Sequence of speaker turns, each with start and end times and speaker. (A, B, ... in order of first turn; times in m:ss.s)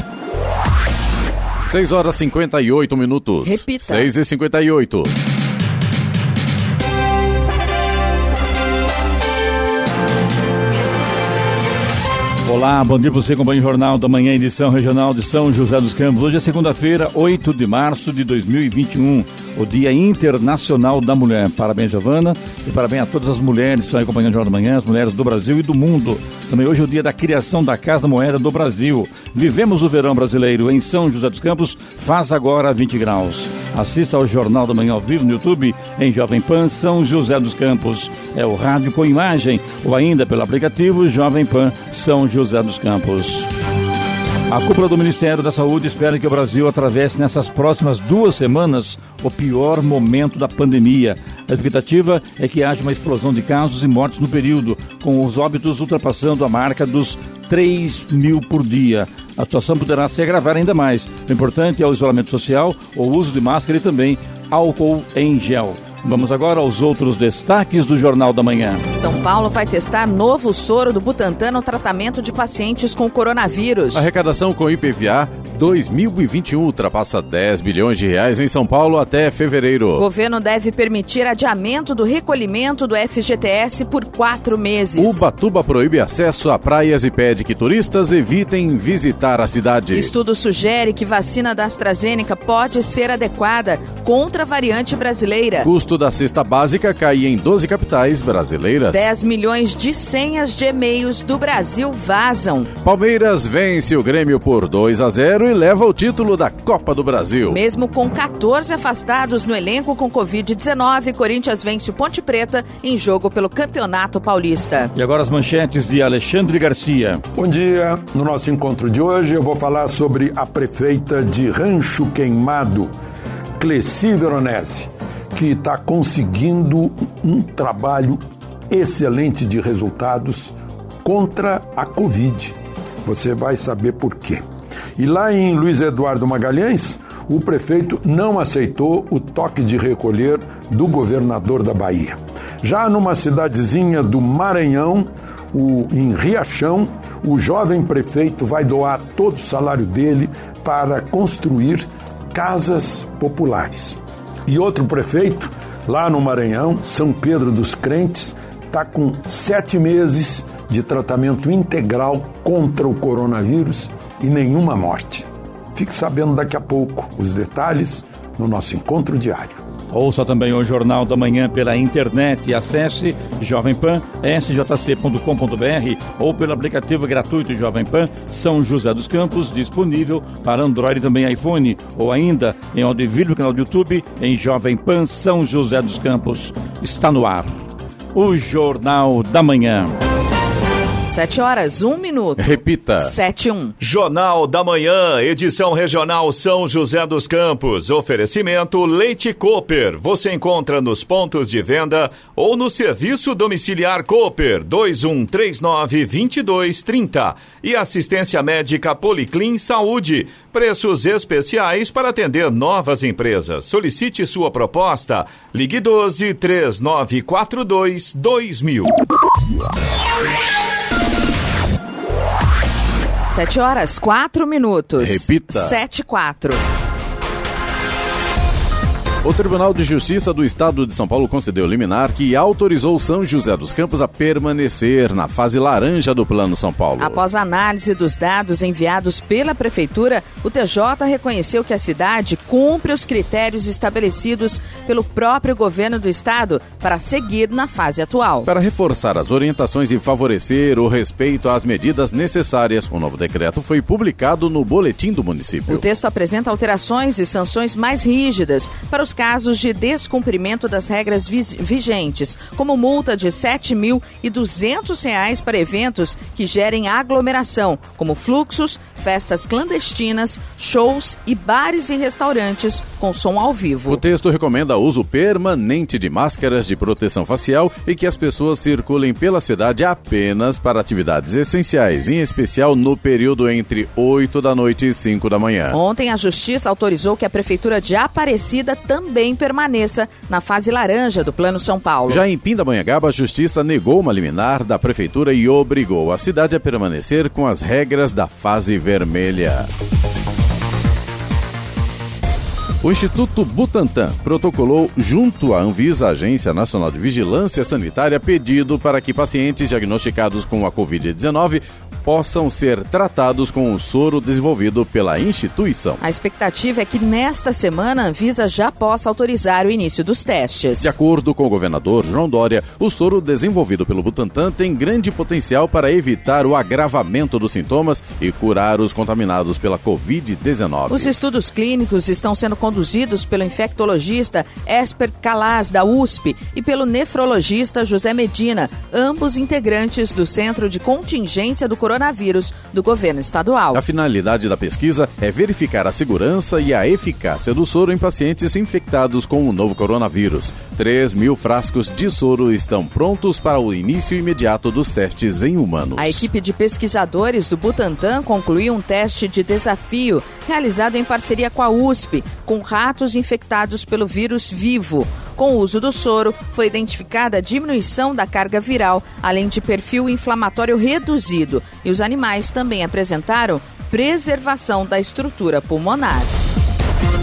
0:01.6-0:05.1 A
0:03.4-0:04.1 B
0:12.4-0:43.5 C
0:44.5-1:08.8 C
1:08.9-1:14.1 B
1:13.9-1:20.0 A
1:20.0-1:25.2 B
1:25.0-1:30.1 A
1:29.9-1:35.7 B
1:35.6-1:39.0 A
1:38.9-1:42.7 B
1:42.8-1:47.6 A
1:47.5-1:54.9 B
1:54.9-1:57.2 C
1:57.3-2:02.9 D
2:03.6-2:14.4 D
2:15.0-2:49.6 D
2:49.9-3:07.5 C
3:08.1-3:10.0 C
3:11.1-3:13.7 B
3:12.4-3:13.1 A
3:13.8-3:38.9 E
3:43.3-3:46.6 B
3:45.0-3:45.8 A
3:49.2-3:57.2 A
3:57.0-4:08.5 B
4:08.4-4:15.8 A
4:15.7-4:34.0 B
4:33.9-4:45.8 A
4:45.7-4:52.2 B
4:52.1-4:59.7 A
5:02.8-5:16.0 A
5:16.0-5:20.9 B
5:20.8-5:31.1 A
5:30.9-5:43.8 B
5:43.7-5:56.2 A
5:56.0-6:16.3 B